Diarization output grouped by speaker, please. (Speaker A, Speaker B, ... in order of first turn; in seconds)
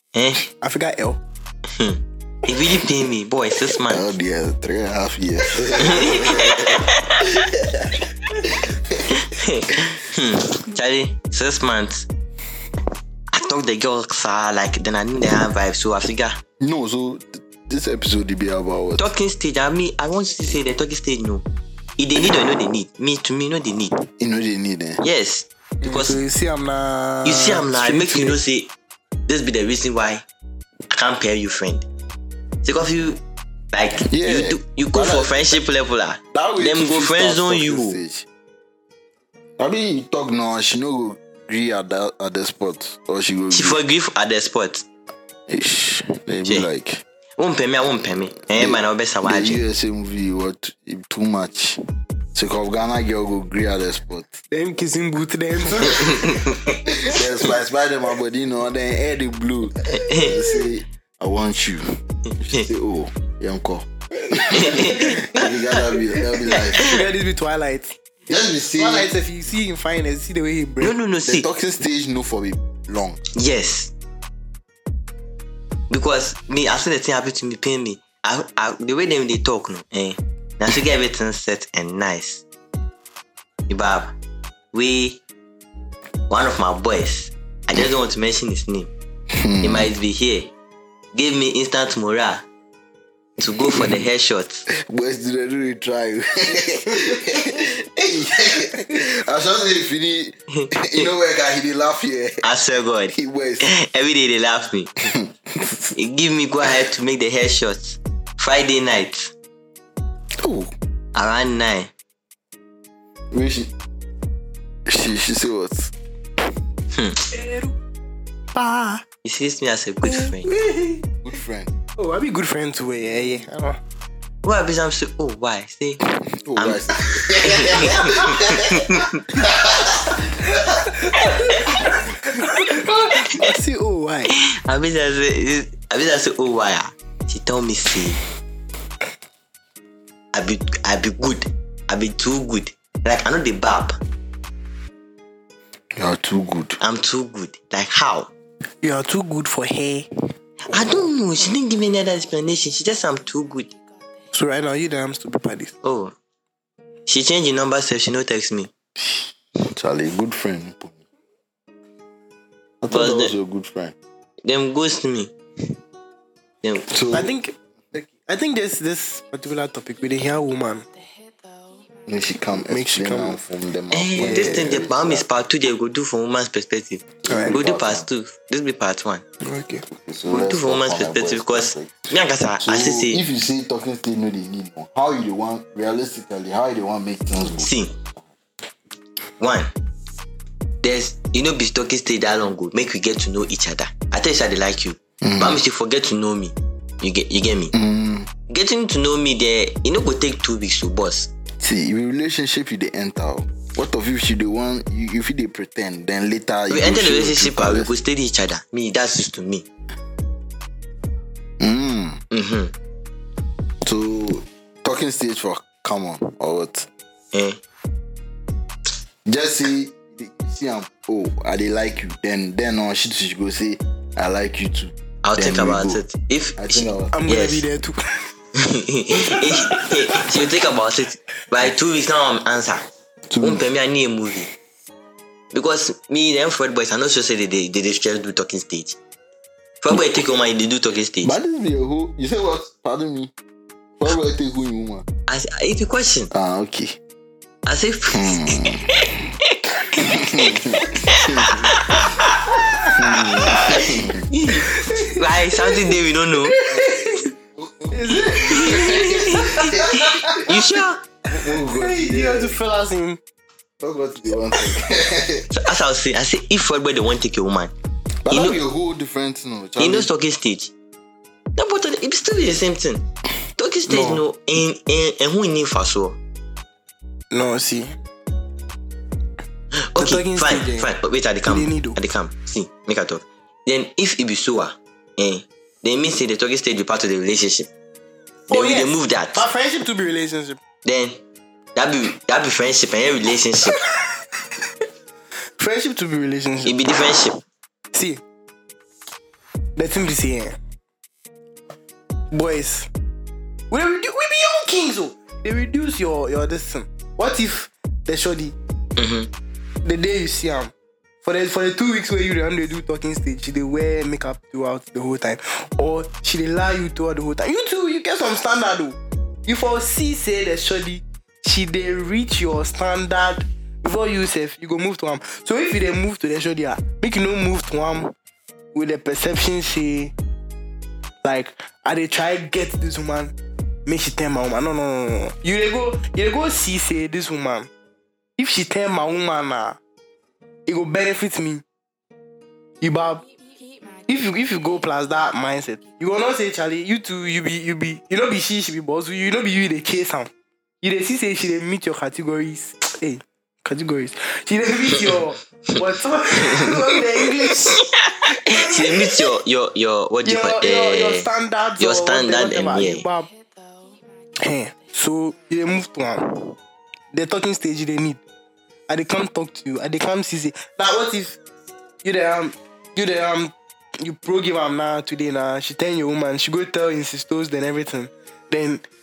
Speaker A: 0.1-0.4, 1.7-4.1, 5.8-7.5, 9.1-12.1, 13.3-16.4, 19.0-21.5, 22.0-23.9, 25.0-26.2, 27.2-28.7, 29.3-30.2, 30.9-31.9, 32.6-33.2, 33.7-38.0, 43.5-44.9, 47.4-49.6, 56.0-56.8, 59.9-60.4, 64.6-65.6, 70.8-71.5, 73.3-73.9, 75.9-82.4, 83.7-84.1, 84.7-85.2, 86.3-88.9, 89.6-90.5, 91.1-92.5, 93.4-94.7, 100.5-101.1, 102.4-104.9, 106.0-109.3, 111.2-111.9, 116.9-117.2, 119.2-120.5, 124.4-126.0, 126.6-129.2, 134.4-138.2, 140.3-144.0, 146.8-148.3, 150.7-153.8, 155.8-156.1, 157.1-158.7, 162.9-163.3, 164.4-165.3, 166.6-166.9, 173.9-179.2, 180.3-183.2, 187.6-187.9, 189.4-189.7, 190.8-197.7, 198.5-201.3, 206.7-209.7, 212.3-212.7, 217.3-217.6, 225.2-227.6, 228.6-232.8, 233.4-234.5, 235.5-239.0, 239.8-241.3, 245.3-246.3, 247.7-250.1, 251.1-252.4, 253.4-256.6, 258.5-259.7, 260.4-261.0, 265.5-267.7, 268.3-268.6, 269.8-270.7, 271.6-273.0, 273.6-276.2, 279.9-287.7, 288.5-289.5, 290.9-291.2, 291.8-293.8, 296.6-297.4, 309.0-309.3, 356.4-356.8, 357.8-363.1
Speaker B: 0.6-1.2, 25.8-28.4, 54.5-56.4, 66.8-68.0, 68.8-70.9, 117.3-117.7, 118.5-119.0, 120.0-121.0, 122.0-123.8, 130.6-134.3, 148.8-150.1, 154.3-155.7, 167.1-170.9, 172.7-173.4, 174.2-174.7, 177.3-177.6, 179.4-179.8, 227.1-228.0, 229.2-229.9, 252.5-253.0, 253.5-253.8, 254.6-257.3, 257.9-260.4, 261.6-263.2, 273.9-274.2, 277.3-277.9, 280.0-280.9, 281.4-282.0, 288.5-290.6, 295.6-296.8, 297.9-298.2, 299.8-300.6, 302.3-302.9, 303.7-308.6, 309.9-328.1, 328.7-330.1, 331.2-333.3, 333.9-337.7, 338.4-339.8, 340.7-341.6, 342.8-343.2, 344.1-350.3, 350.8-359.2, 360.2-363.3, 364.4-366.6, 367.1-368.2, 368.9-371.4, 372.0-378.8
Speaker C: 3.8-9.1, 16.6-19.1, 24.0-25.0, 34.1-35.6, 36.3-38.3, 39.6-43.8, 45.5-47.0, 48.5-51.8, 52.3-54.4, 56.9-66.9, 68.3-69.1, 71.2-73.2, 89.3-89.9, 93.7-94.0, 94.7-102.5, 103.1-103.7, 105.1-106.0, 110.4-110.7, 113.3-113.7, 114.9-115.9, 121.2-121.7, 126.3-130.6, 146.0-146.8, 150.7-151.1, 159.7-161.0, 162.8-163.9, 166.9-167.3, 172.1-175.3, 177.2-178.1, 179.9-182.1, 182.6-187.7, 195.2-195.6, 197.7-198.3, 201.6-207.9, 211.6-212.2, 213.8-216.9, 219.3-226.0, 226.6-227.2, 233.3-233.7, 241.2-243.3, 244.0-245.1, 246.3-247.0, 248.1-249.0, 250.0-251.7, 252.9-254.3, 256.7-260.8, 261.3-262.6, 263.8-265.5, 268.2-270.1